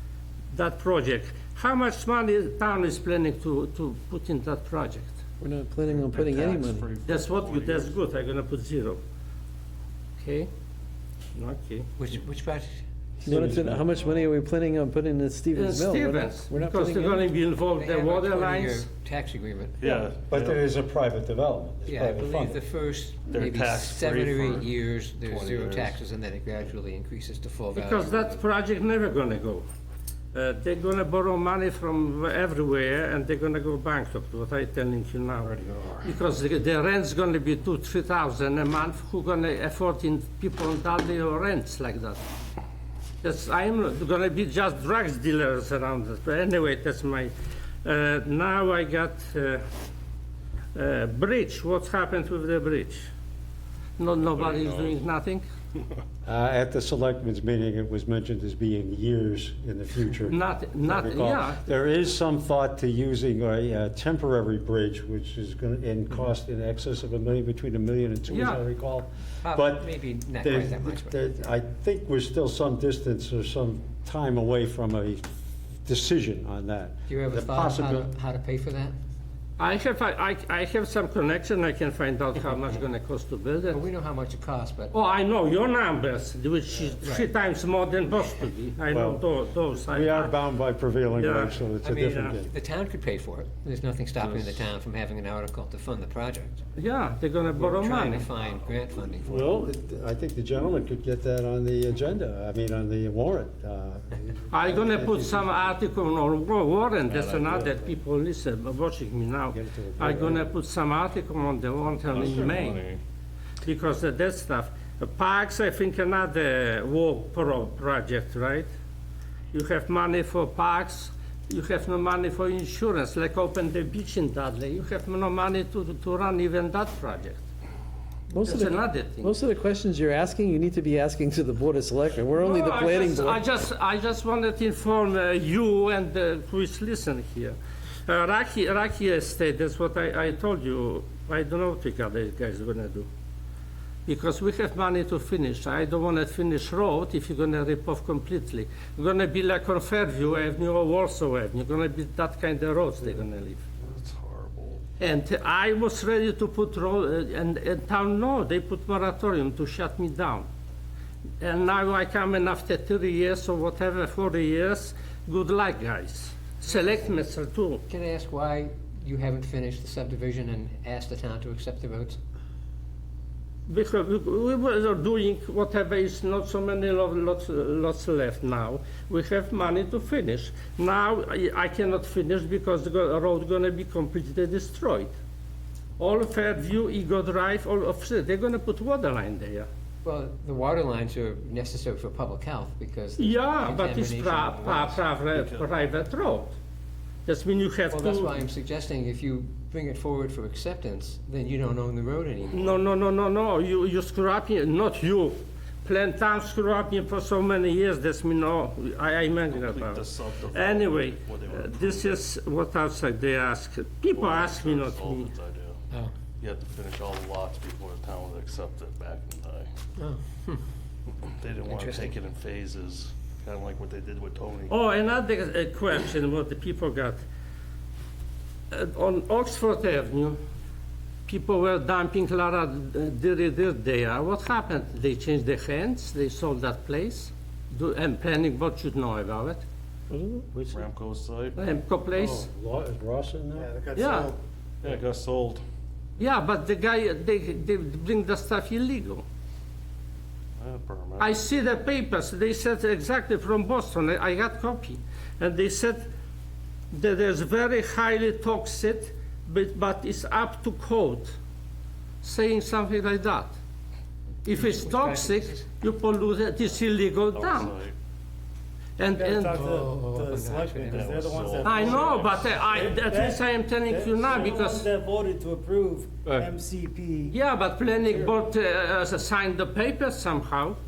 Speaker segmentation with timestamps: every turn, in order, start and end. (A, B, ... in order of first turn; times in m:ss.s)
0:00.5-0:05.2 A
0:05.4-0:06.9 B
0:05.9-0:07.9 C
0:07.0-0:09.0 A
0:10.2-0:10.5 A
0:11.3-0:11.9 A
0:12.0-0:12.8 D
0:13.2-0:14.0 E
0:13.2-0:17.3 B
0:15.5-0:18.9 A
0:17.7-0:19.9 D
0:19.8-0:20.6 C
0:20.1-0:22.6 E
0:21.8-0:28.4 D
0:23.3-0:26.0 C
0:27.7-0:29.6 A
0:30.3-0:35.5 A
0:35.4-0:36.1 C
0:36.0-0:42.2 A
0:43.2-0:49.6 A
0:50.7-0:53.1 A
0:54.0-0:55.4 A
0:54.2-0:55.0 C
0:56.2-1:15.2 E
1:00.3-1:01.6 A
1:08.3-1:08.6 A
1:09.4-1:11.4 D
1:15.8-1:18.1 E
1:17.1-1:18.9 D
1:19.6-1:23.8 A
1:23.7-1:24.9 D
1:24.9-1:30.3 A
1:27.0-1:27.3 D
1:28.9-1:29.2 E
1:29.8-1:32.5 E
1:31.2-1:32.3 A
1:31.8-1:36.6 D
1:36.8-1:38.3 A
1:37.6-1:39.5 D
1:39.2-1:45.7 E
1:44.5-1:52.8 A
1:47.0-1:47.9 C
1:49.5-1:50.5 E
1:52.1-1:53.0 C
1:53.6-1:58.7 A
1:59.5-2:07.4 A
2:08.3-2:13.4 B
2:08.4-2:09.3 A
2:12.3-2:23.1 A
2:24.0-2:33.6 A
2:33.8-2:34.8 C
2:35.0-2:40.5 A
2:41.4-2:47.8 A
2:47.9-2:52.2 D
2:53.7-3:05.1 A
3:06.0-3:09.7 A
3:10.0-3:15.0 D
3:13.2-3:16.6 A
3:15.3-3:15.7 C
3:17.2-3:18.3 A
3:17.9-3:22.8 D
3:22.5-3:35.3 A
3:29.4-3:32.2 C
3:34.1-3:35.8 C
3:36.4-3:39.7 C
3:40.0-3:40.6 D
3:41.4-3:44.7 C
3:41.7-3:42.1 D
3:44.7-3:47.2 A
3:48.7-3:50.4 A
3:51.3-3:59.6 A
4:00.1-4:00.5 B
4:00.5-4:00.8 E
4:00.7-4:01.6 C
4:01.6-4:02.4 A
4:02.1-4:03.7 E
4:03.6-4:04.4 F
4:03.9-4:04.3 A
4:04.8-4:05.6 C
4:06.2-4:09.2 A
4:10.6-4:11.3 C
4:11.2-4:16.1 A
4:16.9-4:21.4 A
4:22.2-4:23.6 A
4:24.4-4:27.8 A
4:24.6-4:25.6 D
4:27.3-4:27.9 C
4:29.0-4:29.8 A
4:29.1-4:37.4 F
4:29.6-4:31.2 D
4:30.8-4:32.9 C
4:31.6-4:34.9 A
4:37.3-4:40.8 A
4:37.9-4:38.3 F